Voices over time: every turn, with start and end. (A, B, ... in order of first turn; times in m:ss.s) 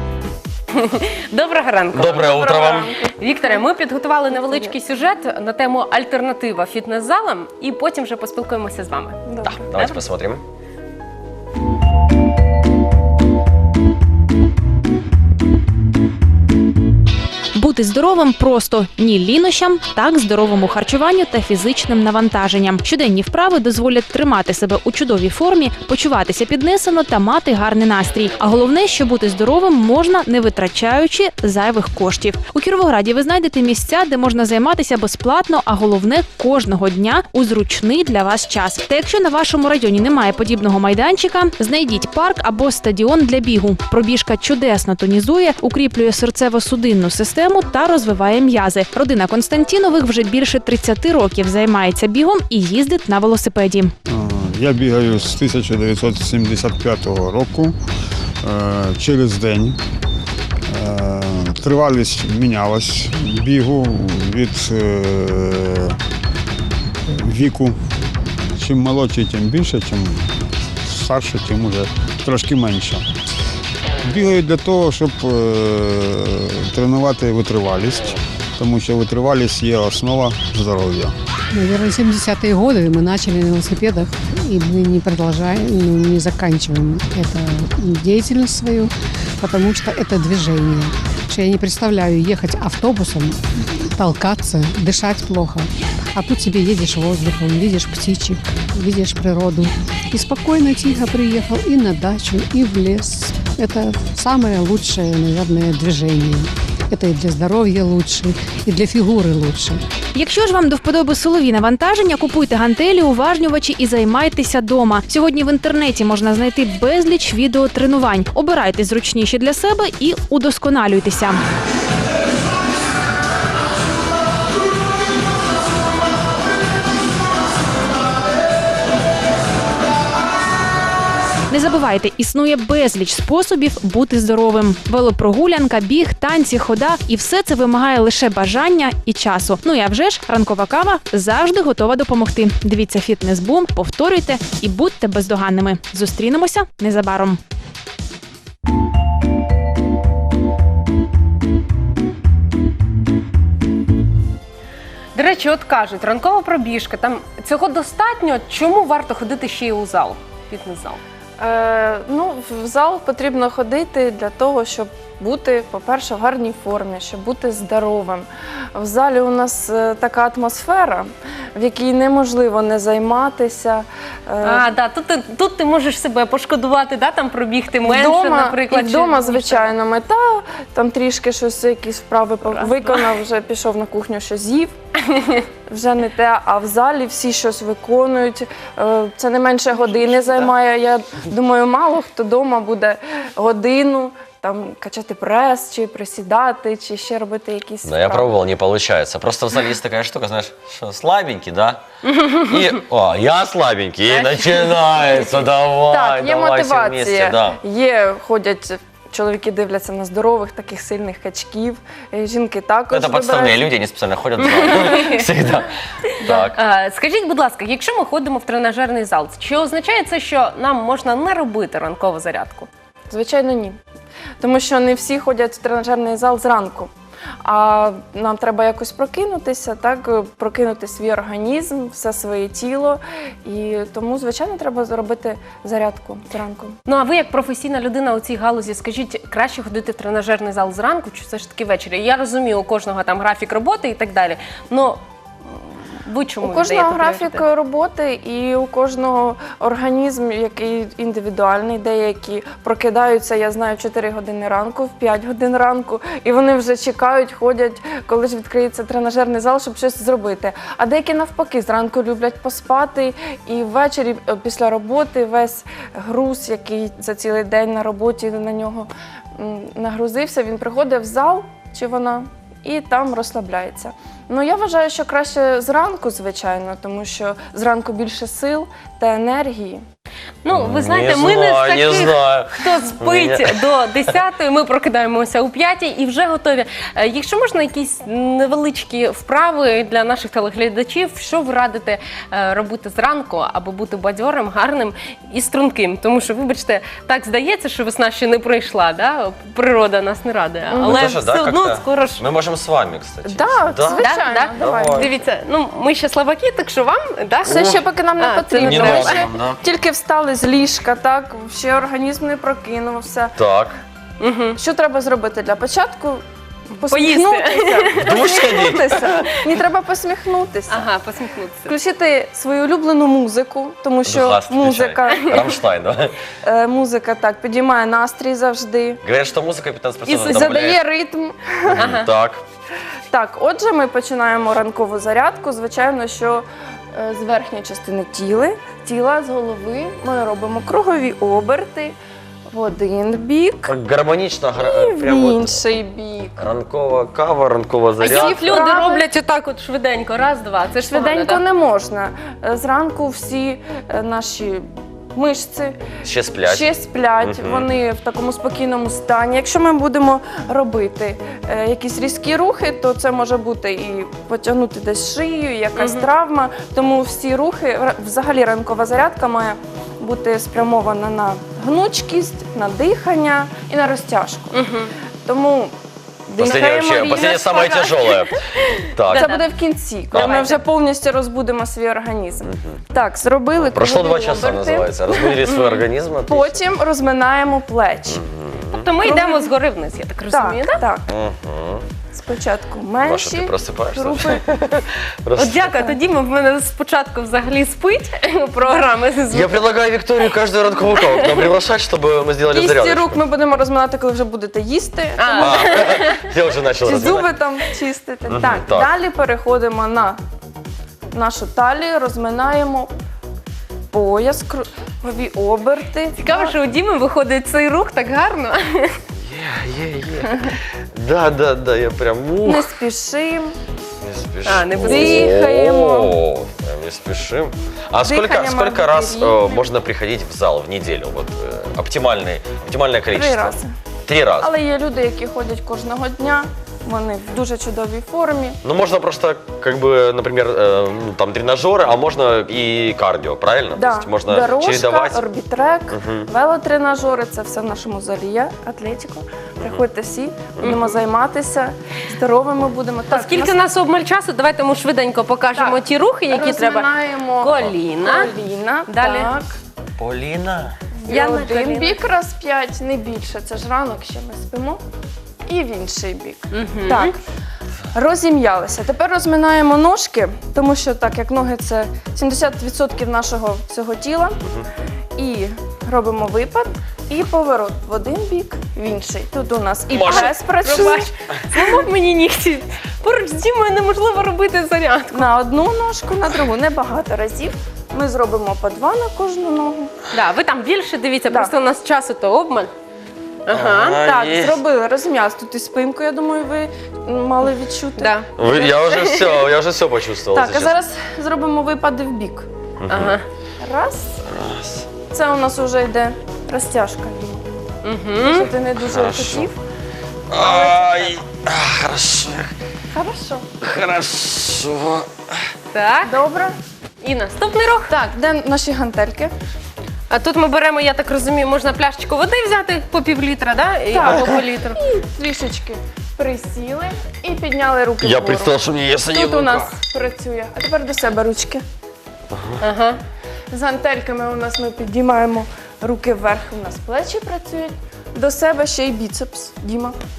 0:00.8-0:10.0 A
0:01.9-0:02.9 B
0:02.2-0:03.6 C
0:04.3-0:04.7 C
0:09.3-0:09.8 C
0:09.4-0:10.4 B
0:17.5-0:53.9 D
0:54.1-0:57.8 E
0:58.4-0:59.8 E
1:00.7-1:06.0 E
1:07.1-1:07.8 E
1:08.6-1:10.3 E
1:10.8-1:13.0 E
1:14.0-1:21.1 E
1:21.5-1:49.8 F
1:50.1-2:01.4 D
2:11.5-2:27.4 D
2:35.2-2:41.0 A
2:41.4-2:54.7 C
2:54.4-2:59.7 A
2:57.8-3:04.7 C
3:02.5-3:03.0 A
3:05.7-3:18.3 C
3:17.8-3:21.8 B
3:22.1-3:22.7 A
3:22.4-3:27.6 B
3:24.1-3:25.4 A
3:25.8-3:33.7 C
3:32.9-3:35.7 B
3:34.4-3:35.3 A
3:36.2-3:36.6 B
3:36.2-3:42.7 A
3:43.1-3:43.8 C
3:44.4-3:46.9 C
3:47.4-3:56.8 C
3:56.9-4:07.4 A
4:06.4-4:39.8 C
4:40.4-5:02.3 A
4:40.5-4:43.7 B
5:00.7-5:01.2 C
5:00.8-5:05.1 B
5:03.2-5:05.2 C
5:04.0-5:09.3 A
5:07.4-5:13.4 C
5:07.5-5:07.8 B
5:08.6-5:09.6 B
5:13.4-5:13.8 B
5:14.2-5:14.6 A
5:14.6-5:16.2 C
5:16.8-5:20.9 C
5:16.9-5:19.1 A
5:18.0-5:19.2 B
5:20.7-5:21.7 A
5:21.7-5:25.5 C
5:24.0-5:26.1 B
5:25.1-5:25.4 A
5:26.4-5:29.0 C
5:29.0-5:30.8 B
5:30.1-5:32.0 C
5:30.1-5:30.5 A
5:31.7-5:32.4 B
5:31.8-5:32.1 A
5:33.1-5:42.0 C
5:42.5-5:43.8 C
5:43.7-5:45.7 B
5:44.5-5:46.5 C
5:46.4-5:48.5 B
5:48.0-5:51.4 A
5:48.0-5:49.0 C
5:50.9-5:54.6 C
5:55.2-6:14.6 C
5:56.0-5:57.7 B
6:05.8-6:06.1 A
6:14.5-6:14.9 A
6:15.3-6:15.7 C
6:16.3-6:18.2 C
6:16.4-6:18.4 B
6:18.9-6:19.4 B
6:19.0-6:25.4 C
6:19.1-6:19.5 A
6:20.1-6:20.5 B
6:20.1-6:20.6 A
6:22.5-6:22.8 B
6:23.6-6:26.6 B
6:26.2-6:28.2 C
6:28.1-6:28.9 B
6:28.7-6:30.8 A
6:29.0-6:29.5 C
6:30.3-6:31.1 C
6:31.1-6:31.8 B
6:32.1-6:34.5 C
6:33.0-6:35.9 B
6:35.4-6:39.6 A
6:39.3-6:43.2 B
6:41.0-6:41.5 A
6:42.5-6:45.9 C
6:45.2-6:46.3 A
6:45.4-6:47.4 B
6:46.8-6:50.2 C
6:48.3-6:48.9 B
6:51.1-6:52.9 C
6:53.9-6:56.6 C
6:56.2-6:59.0 A
6:59.2-7:02.7 B
7:02.4-7:03.6 C
7:04.0-7:14.5 B
7:04.4-7:05.3 A
7:04.8-7:06.2 C
7:08.0-7:09.7 C
7:13.1-7:13.7 C
7:14.4-7:18.6 C
7:18.6-7:25.2 B
7:23.7-7:33.6 C
7:25.9-7:26.3 B
7:30.6-7:31.0 A
7:33.1-7:38.3 A
7:35.5-7:39.5 C
7:38.9-7:39.3 A
7:40.0-7:40.8 B
7:41.0-7:44.8 C
7:41.1-7:42.0 A
7:45.5-7:47.1 C
7:46.5-7:47.2 A
7:47.9-7:54.4 C
7:55.2-8:01.1 C
7:59.9-8:00.3 B
8:00.1-8:05.3 A
8:05.1-8:10.0 C
8:10.1-8:12.7 A
8:13.5-8:14.0 A
8:13.5-8:14.6 B
8:14.0-8:18.9 C
8:18.0-8:18.3 A
8:18.4-8:20.8 B
8:18.9-8:19.4 A
8:20.3-8:22.5 C
8:22.8-8:23.2 B
8:22.9-8:23.2 A
8:23.6-8:24.2 C
8:24.2-8:24.9 B
8:25.0-8:27.5 C
8:27.8-8:28.5 A
8:28.2-8:29.6 C
8:28.7-8:29.5 B
8:30.3-8:32.5 B
8:30.3-8:31.3 C
8:32.9-8:33.5 C
8:33.6-8:35.4 B
8:35.7-8:36.2 A
8:36.0-8:36.6 C
8:37.0-8:37.9 A
8:37.9-8:39.3 C
8:40.1-8:44.8 A
8:43.9-8:51.6 C
8:48.0-8:49.8 B
8:52.3-8:52.6 B
8:52.6-8:53.0 A
8:53.5-9:00.0 C